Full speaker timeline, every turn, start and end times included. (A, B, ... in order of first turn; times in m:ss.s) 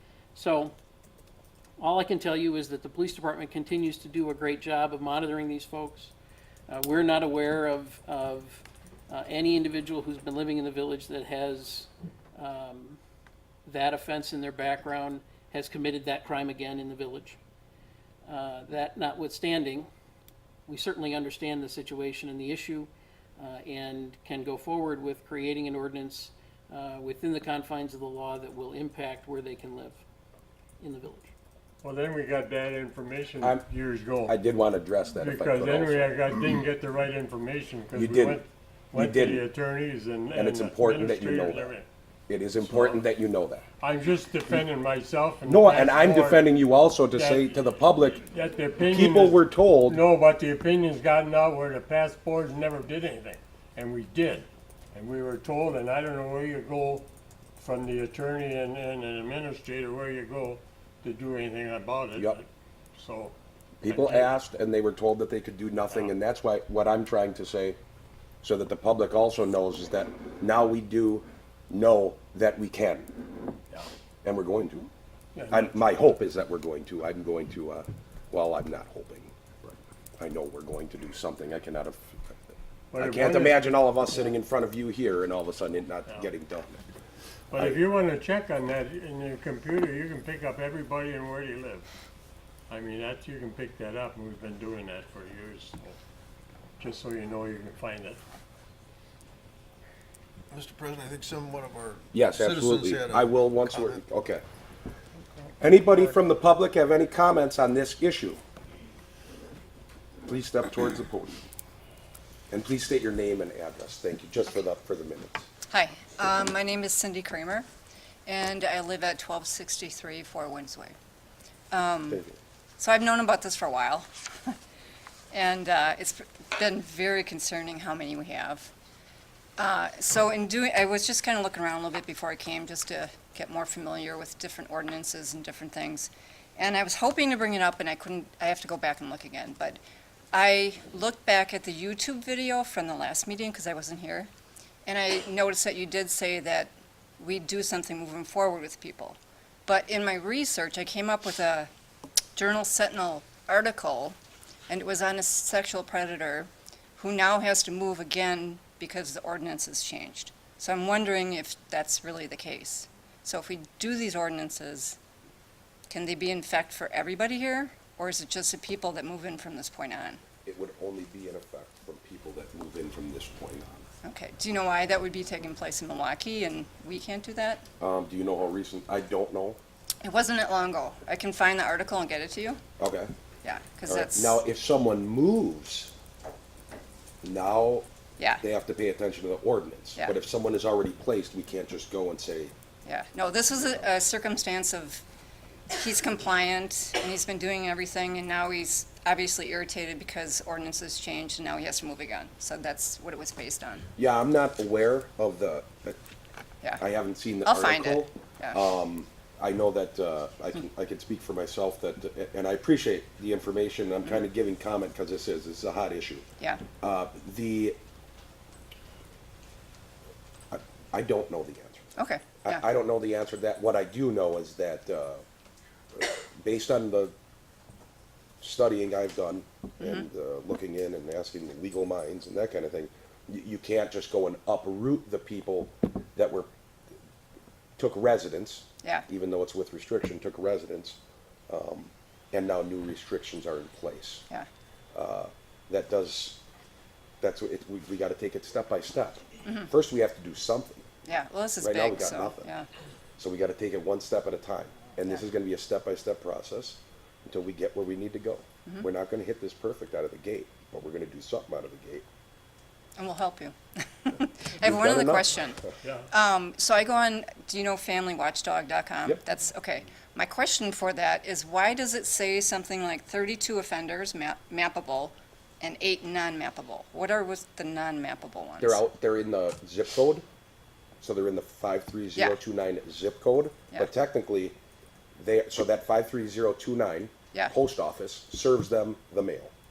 0:00.3-0:00.7 A
0:01.8-0:06.1 A
0:06.7-0:13.0 A
0:13.6-0:17.4 A
0:18.2-0:19.9 A
0:20.7-0:30.0 A
0:30.8-0:31.3 A
0:31.8-0:34.4 B
0:34.2-0:36.1 C
0:35.2-0:41.9 B
0:37.9-0:38.4 C
0:38.9-0:39.4 C
0:40.3-0:41.7 C
0:42.3-0:43.6 C
0:42.6-0:43.0 B
0:43.8-0:46.4 B
0:45.4-0:48.2 C
0:47.1-1:04.3 B
0:48.9-0:50.0 C
1:03.8-1:07.8 C
1:08.4-1:13.1 C
1:14.2-1:14.9 C
1:15.3-1:15.8 B
1:15.5-1:22.2 C
1:22.9-1:23.6 B
1:23.0-1:26.8 C
1:27.5-1:31.9 B
1:32.7-1:36.0 B
1:36.8-1:38.2 B
1:40.5-1:44.0 D
1:42.1-1:44.4 C
1:45.6-1:48.4 C
1:50.2-1:51.4 C
1:52.5-1:55.5 C
1:55.7-1:57.6 E
1:58.2-2:00.9 E
2:01.7-2:02.2 E
2:02.1-2:02.4 C
2:02.8-2:04.6 E
2:05.3-2:08.7 E
2:09.6-2:19.8 E
2:20.3-2:24.3 E
2:24.8-2:31.7 E
2:32.4-2:34.2 E
2:34.7-2:45.0 E
2:45.9-2:50.2 E
2:50.4-2:53.8 C
2:54.0-2:57.6 E
2:57.8-2:59.6 C
3:00.0-3:02.6 E
3:02.8-3:03.1 C
3:03.4-3:04.4 E
3:03.9-3:05.9 C
3:07.2-3:07.9 C
3:08.4-3:12.5 C
3:12.8-3:15.0 E
3:15.7-3:23.9 E
3:24.0-3:26.0 C
3:26.8-3:36.2 C
3:27.4-3:28.6 E
3:36.4-3:36.6 E
3:36.8-3:37.8 C
3:40.5-3:41.8 C
3:42.0-3:42.6 E
3:42.4-3:45.2 C
3:46.0-3:47.1 C
3:48.4-3:56.5 C
3:49.8-3:50.0 E
3:57.8-4:04.2 C
4:04.9-4:06.4 C
4:07.2-4:10.8 C
4:11.0-4:12.7 E
4:11.6-4:12.5 C
4:13.2-4:22.0 C
4:23.0-4:38.8 E
4:24.6-4:25.3 C
4:25.8-4:26.1 B
4:38.6-4:40.2 C
4:41.0-4:44.6 C
4:45.2-4:49.5 C